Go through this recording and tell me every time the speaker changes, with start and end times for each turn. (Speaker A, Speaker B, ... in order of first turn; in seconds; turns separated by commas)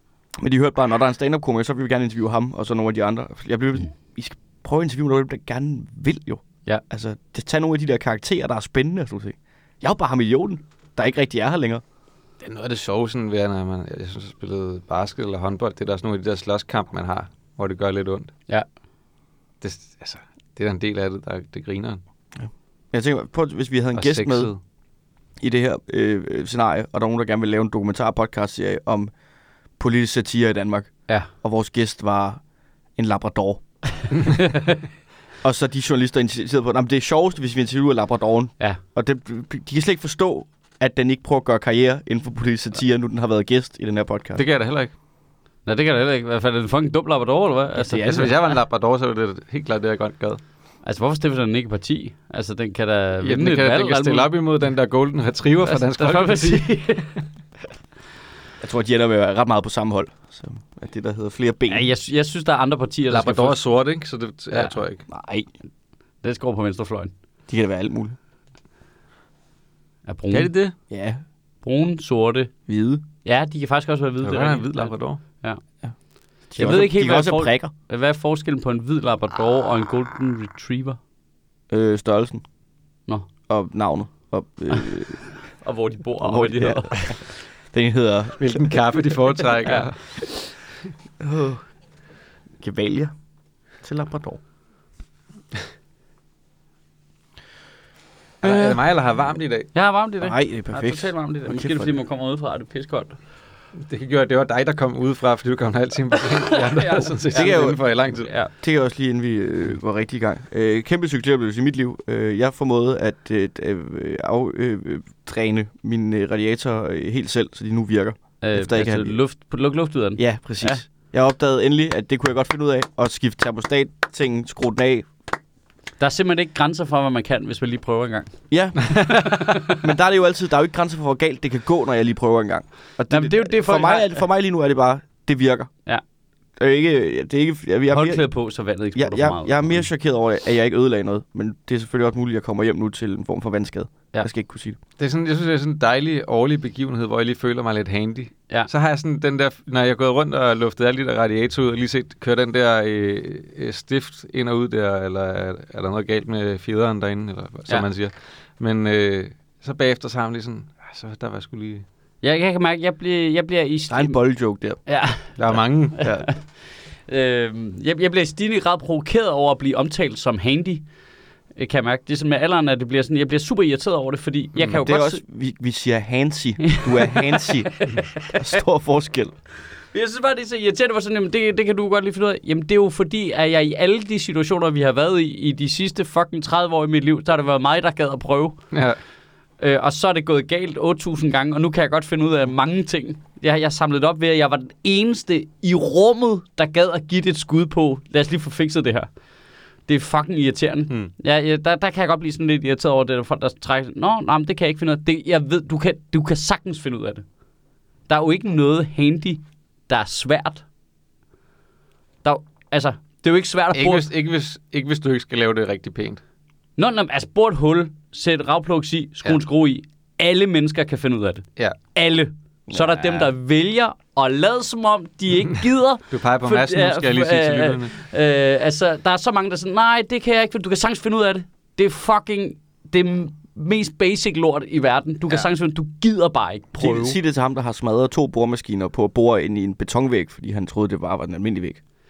Speaker A: 0.4-11.8, Speaker B: 12.4-18.3, Speaker B: 19.6-22.0, Speaker A: 22.4-24.5, Speaker B: 23.9-24.6, Speaker A: 25.4-29.1, Speaker A: 29.8-32.4, Speaker A: 33.0-33.6, Speaker A: 35.4-44.4, Speaker B: 44.4-44.9, Speaker C: 45.6-48.3, Speaker A: 47.8-48.4, Speaker B: 48.1-50.4, Speaker C: 50.8-54.3, Speaker B: 53.2-56.9, Speaker C: 55.6-57.1, Speaker A: 58.6-61.9, Speaker C: 61.7-63.6, Speaker B: 63.1-65.0, Speaker C: 64.5-64.8, Speaker A: 65.1-65.5, Speaker C: 66.2-67.1, Speaker A: 67.5-68.2, Speaker C: 70.1-70.5, Speaker B: 70.3-70.8, Speaker A: 70.9-71.2, Speaker C: 71.6-72.5, Speaker A: 72.7-73.0, Speaker C: 73.2-75.6, Speaker B: 74.2-75.2, Speaker A: 76.5-77.7, Speaker C: 76.5-81.0, Speaker A: 81.7-82.4, Speaker A: 83.5-85.2, Speaker C: 85.5-87.1, Speaker A: 86.2-88.8, Speaker B: 88.4-90.0, Speaker C: 89.6-89.9, Speaker A: 91.2-91.6, Speaker A: 92.6-93.1, Speaker A: 93.8-94.4, Speaker B: 98.4-99.7, Speaker A: 98.4-98.8, Speaker C: 99.7-103.2, Speaker A: 100.2-101.9, Speaker B: 103.8-108.3, Speaker C: 106.4-108.5, Speaker A: 107.3-107.8, Speaker A: 108.6-119.2, Speaker C: 118.4-120.8, Speaker A: 120.2-125.1, Speaker C: 126.0-128.3, Speaker A: 128.5-135.7, Speaker B: 128.8-129.4, Speaker C: 129.2-129.8, Speaker C: 133.1-134.2, Speaker A: 136.6-138.2, Speaker C: 137.9-139.9, Speaker A: 138.9-144.8, Speaker B: 145.0-161.8, Speaker C: 162.2-164.2, Speaker A: 163.9-164.8, Speaker C: 164.9-165.3, Speaker B: 165.4-166.2, Speaker C: 166.0-166.4, Speaker C: 167.1-170.8, Speaker C: 171.6-175.2, Speaker A: 174.8-179.3, Speaker C: 176.7-178.3, Speaker C: 179.9-188.6, Speaker B: 188.7-189.0, Speaker C: 189.6-199.1, Speaker C: 199.9-207.2, Speaker C: 208.1-210.6, Speaker C: 212.2-214.1, Speaker B: 213.7-216.2, Speaker C: 216.8-237.2, Speaker A: 222.7-223.3, Speaker B: 226.1-227.9, Speaker A: 236.8-241.8